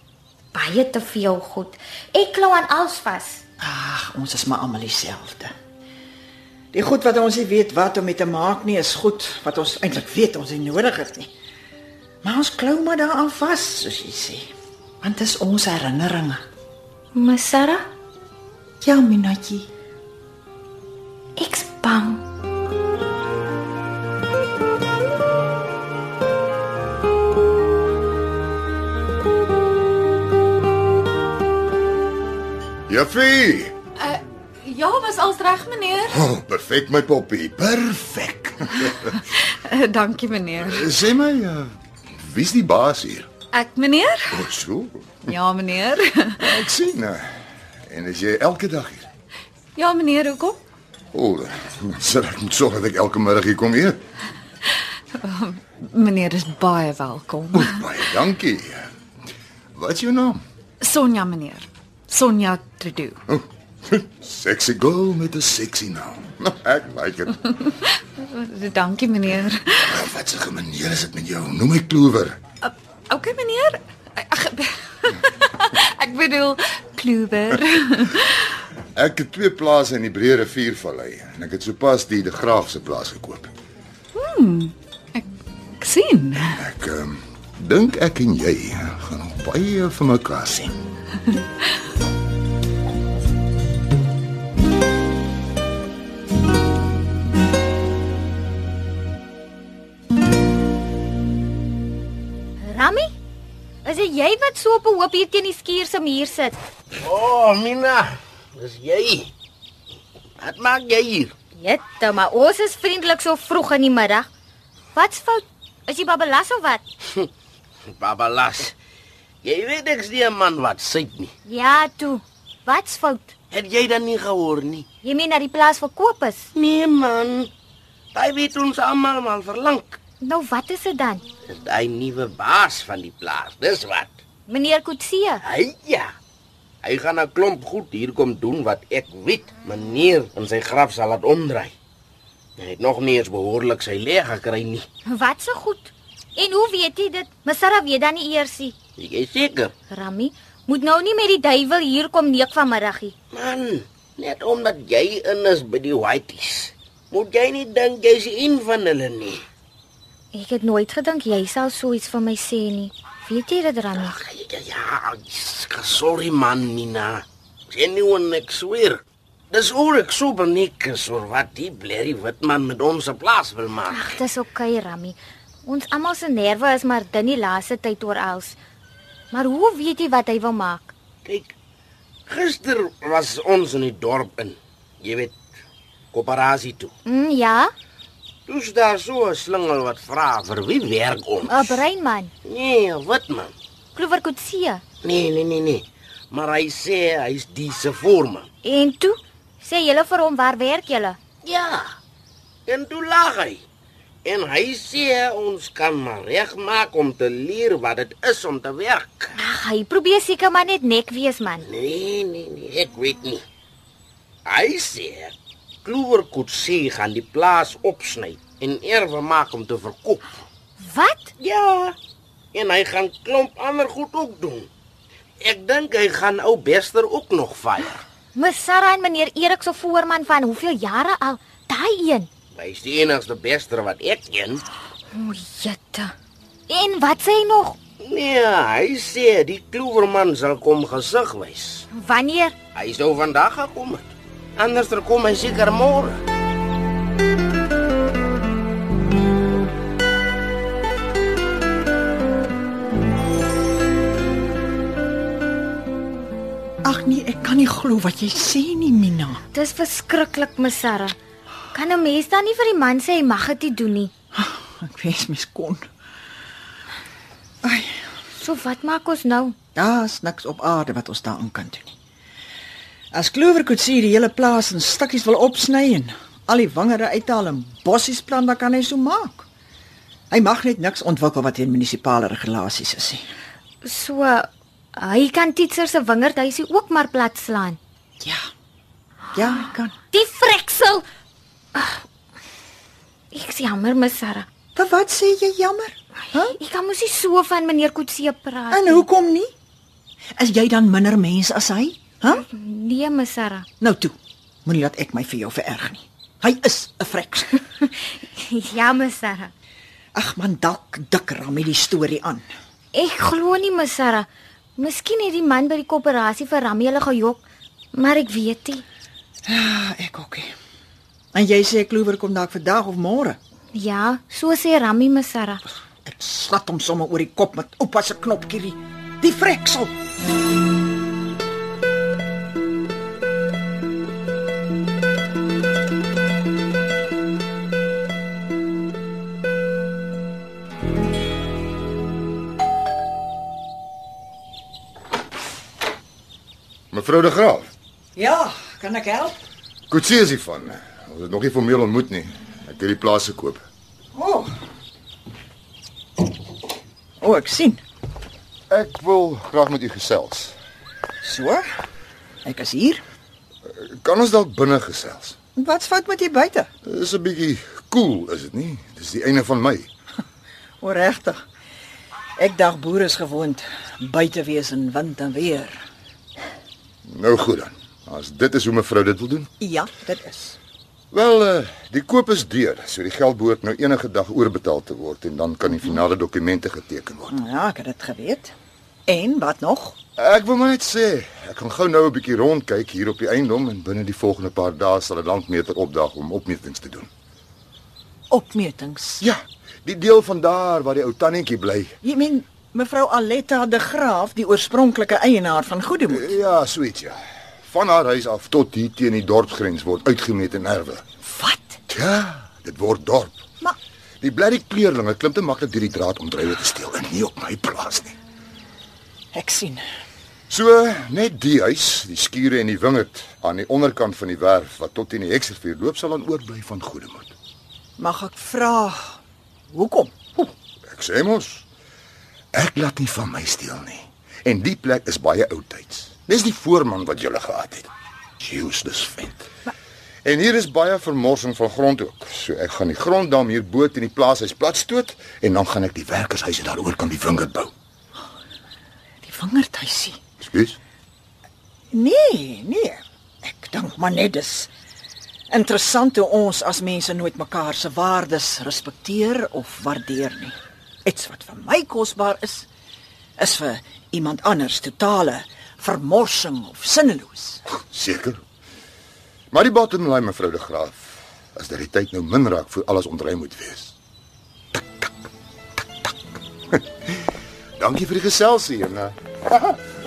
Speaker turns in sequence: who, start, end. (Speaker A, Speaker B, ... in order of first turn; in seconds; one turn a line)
Speaker A: 0.5-3.4
Speaker B: 3.6-5.5
Speaker B: 6.7-11.3
Speaker B: 12.2-14.5
Speaker B: 15.0-16.4
Speaker A: 17.1-17.9
Speaker B: 18.8-19.7
Speaker A: 21.4-22.2
Speaker C: 32.9-33.7
Speaker D: 34.0-36.2
Speaker C: 36.1-39.1
Speaker D: 39.5-40.9
Speaker C: 40.6-43.3
Speaker D: 43.5-44.4
Speaker C: 44.3-45.2
Speaker D: 45.3-46.5
Speaker C: 46.4-47.2
Speaker C: 47.9-49.0
Speaker D: 49.8-50.6
Speaker C: 51.1-54.0
Speaker D: 55.1-57.8
Speaker C: 57.5-58.9
Speaker C: 59.7-60.4
Speaker D: 60.8-63.2
Speaker C: 63.3-67.4
Speaker D: 68.2-69.9
Speaker C: 69.8-72.3
Speaker D: 72.6-78.5
Speaker C: 79.0-83.5
Speaker D: 84.2-85.3
Speaker D: 85.8-86.6
Speaker C: 86.4-90.8
Speaker A: 102.6-103.1
Speaker A: 103.8-106.5
Speaker E: 107.0-109.3
Speaker E: 110.4-111.3
Speaker A: 111.5-114.3
Speaker A: 114.9-116.8
Speaker E: 118.0-118.7
Speaker E: 119.4-121.3
Speaker A: 121.5-123.3
Speaker E: 123.5-124.8
Speaker A: 125.0-126.5
Speaker E: 126.5-127.5
Speaker E: 128.1-130.0
Speaker A: 130.2-131.2
Speaker E: 131.5-134.1
Speaker A: 134.5-135.4
Speaker E: 135.4-136.1
Speaker E: 136.8-141.7
Speaker E: 142.6-144.8
Speaker A: 145.1-148.7
Speaker E: 149.0-149.7
Speaker A: 149.9-153.1
Speaker E: 153.3-159.4
Speaker A: 160.3-164.2
Speaker E: 163.9-174.2
Speaker A: 173.9-178.6
Speaker A: 179.3-180.9
Speaker E: 181.2-181.5
Speaker E: 182.3-185.4
Speaker E: 186.1-186.9
Speaker A: 187.1-187.7
Speaker E: 188.5-191.8
Speaker A: 191.4-192.3
Speaker E: 192.4-193.5
Speaker A: 193.9-194.8
Speaker E: 195.0-198.5
Speaker A: 198.6-201.2
Speaker E: 201.4-201.8
Speaker E: 202.7-203.6
Speaker E: 204.2-209.3
Speaker A: 209.3-211.7
Speaker E: 211.7-213.4
Speaker E: 214.4-220.2
Speaker A: 220.8-221.3
Speaker E: 221.4-221.9
Speaker E: 222.5-224.7
Speaker E: 225.4-228.0
Speaker A: 228.3-232.3
Speaker E: 232.5-234.6
Speaker A: 235.1-236.1
Speaker A: 236.7-237.8
Speaker E: 238.0-241.9
Speaker A: 241.9-242.5
Speaker E: 242.7-246.2
Speaker B: 256.8-259.4
Speaker A: 259.5-261.1
Speaker A: 261.7-264.1
Speaker B: 264.4-265.9
Speaker B: 267.6-268.0
Speaker A: 268.4-269.5
Speaker B: 269.8-271.9
Speaker B: 273.1-279.5
Speaker B: 280.3-283.2
Speaker A: 283.8-287.8
Speaker B: 288.2-288.4
Speaker B: 289.3-289.9
Speaker A: 290.1-291.0
Speaker A: 291.7-292.0
Speaker A: 293.3-294.4
Speaker B: 294.7-296.5
Speaker A: 296.3-299.1
Speaker B: 298.7-299.5
Speaker B: 300.4-302.4
Speaker A: 302.3-303.7
Speaker B: 303.8-307.6
Speaker A: 308.0-309.5
Speaker B: 310.1-312.4
Speaker A: 312.9-314.2
Speaker A: 314.8-317.4
Speaker A: 317.9-318.8
Speaker B: 319.5-320.5
Speaker B: 321.3-323.4
Speaker A: 323.7-325.6
Speaker B: 326.1-329.9
Speaker C: 346.9-347.6
Speaker B: 348.1-349.4
Speaker C: 349.9-353.6
Speaker B: 354.1-354.5
Speaker B: 357.2-357.8
Speaker C: 358.7-360.5
Speaker B: 361.2-361.6
Speaker B: 362.4-363.0
Speaker C: 363.7-365.4
Speaker B: 365.6-366.7
Speaker C: 366.8-369.9
Speaker B: 370.8-371.4
Speaker B: 372.4-375.8
Speaker C: 377.1-379.5
Speaker B: 379.6-380.6
Speaker C: 381.1-387.4
Speaker B: 387.3-388.5
Speaker B: 389.1-390.0
Speaker C: 390.1-397.1
Speaker B: 398.3-399.2
Speaker C: 399.2-401.9
Speaker B: 402.0-406.3
Speaker C: 406.1-411.0
Speaker B: 411.2-411.8
Speaker C: 411.9-413.4
Speaker C: 414.2-418.1
Speaker B: 419.3-419.8
Speaker C: 420.5-427.3
Speaker B: 428.0-430.5
Speaker C: 430.9-431.6
Speaker C: 432.5-437.9
Speaker C: 438.4-439.4
Speaker C: 440.2-447.7
Speaker B: 449.2-450.2
Speaker C: 450.4-450.8
Speaker B: 451.9-454.7
Speaker B: 455.5-462.7
Speaker B: 463.4-467.6
Speaker C: 467.7-468.4
Speaker C: 469.5-471.0
Speaker C: 471.5-473.9
Speaker C: 477.8-479.8